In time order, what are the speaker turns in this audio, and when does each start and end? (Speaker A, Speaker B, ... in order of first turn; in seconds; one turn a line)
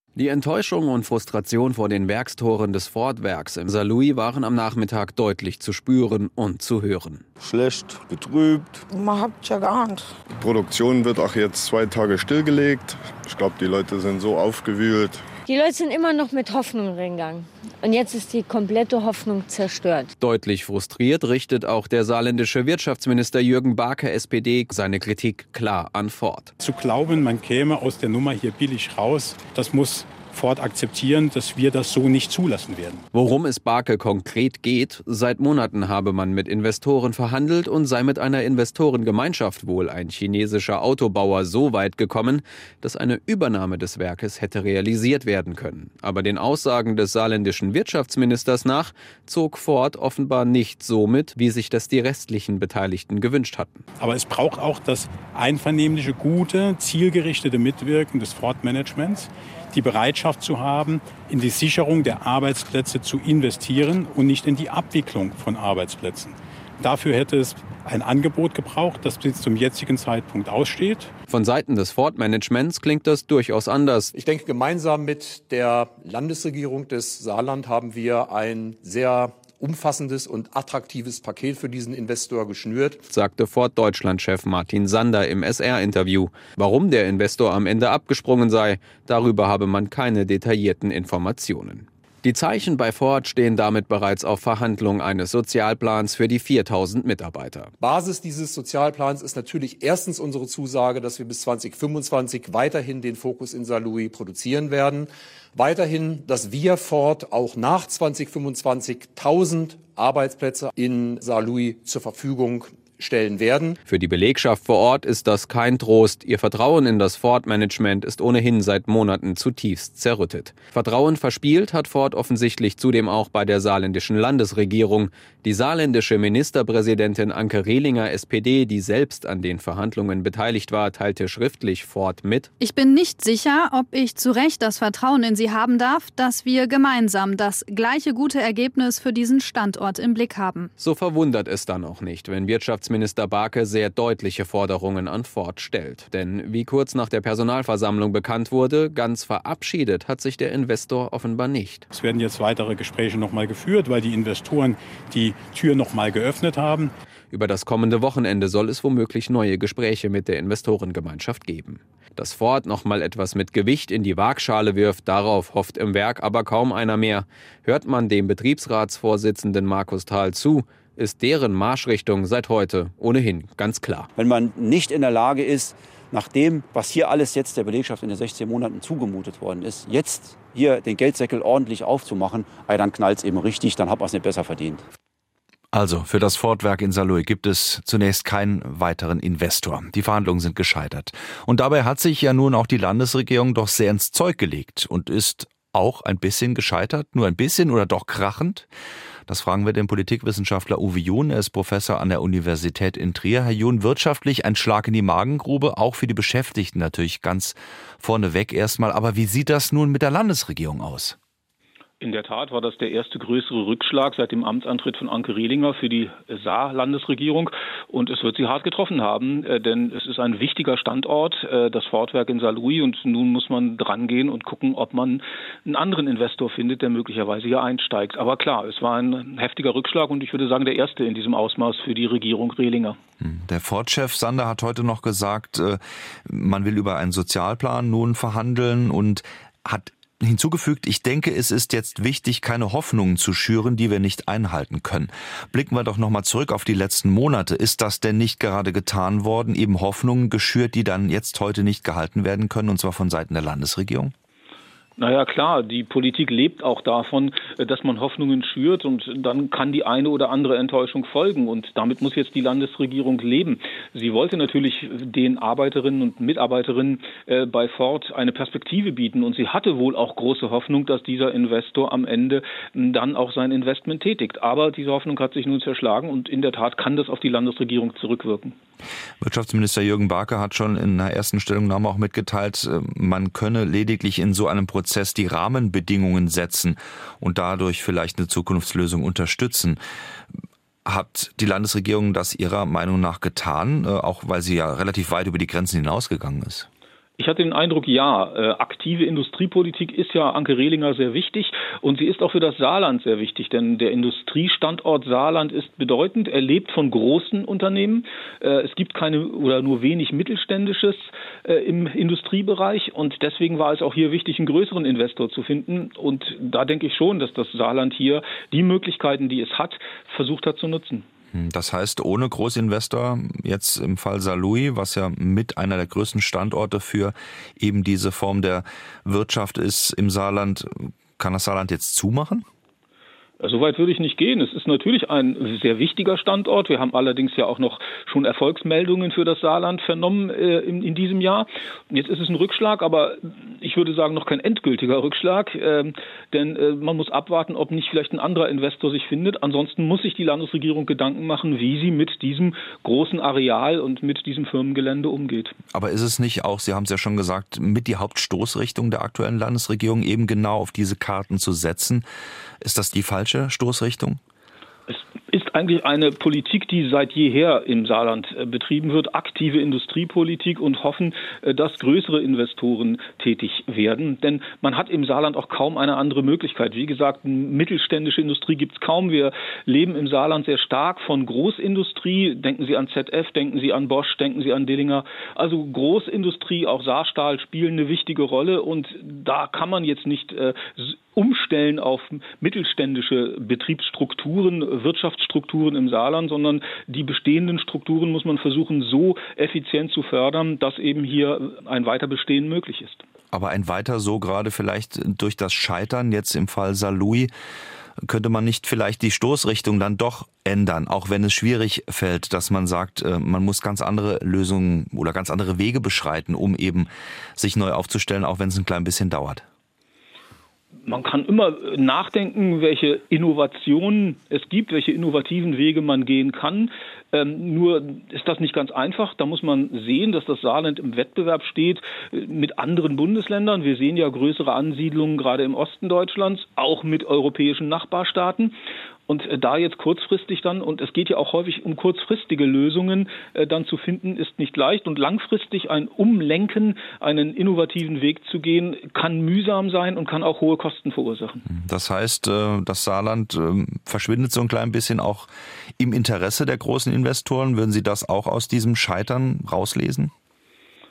Speaker A: 0.1-7.2
Speaker B: 7.4-8.8
Speaker C: 8.9-10.1
Speaker B: 10.4-15.2
Speaker D: 15.4-20.1
Speaker A: 20.2-26.5
Speaker E: 26.6-33.0
Speaker A: 33.1-53.9
Speaker E: 54.0-71.1
Speaker A: 71.3-74.1
Speaker F: 74.1-83.0
Speaker A: 83.1-97.7
Speaker F: 97.8-113.8
Speaker A: 113.9-132.5
Speaker G: 132.6-140.7
Speaker A: 140.8-151.8
Speaker E: 151.9-156.9
Speaker A: 157.3-174.1
Speaker C: 174.2-184.8
Speaker H: 185.7-198.7
Speaker H: 199.3-211.2
Speaker I: 212.0-233.0
Speaker H: 233.2-254.1
Speaker I: 255.0-278.6
Speaker H: 279.2-289.8
Speaker H: 290.9-296.7
Speaker I: 297.2-321.1
Speaker H: 321.3-332.4
Speaker I: 333.4-355.5
Speaker H: 355.7-362.1
Speaker H: 362.6-364.2
Speaker I: 364.9-403.0
Speaker H: 403.3-407.3
Speaker H: 408.0-419.4
Speaker I: 420.8-438.5
Speaker I: 439.1-451.4
Speaker H: 451.5-460.1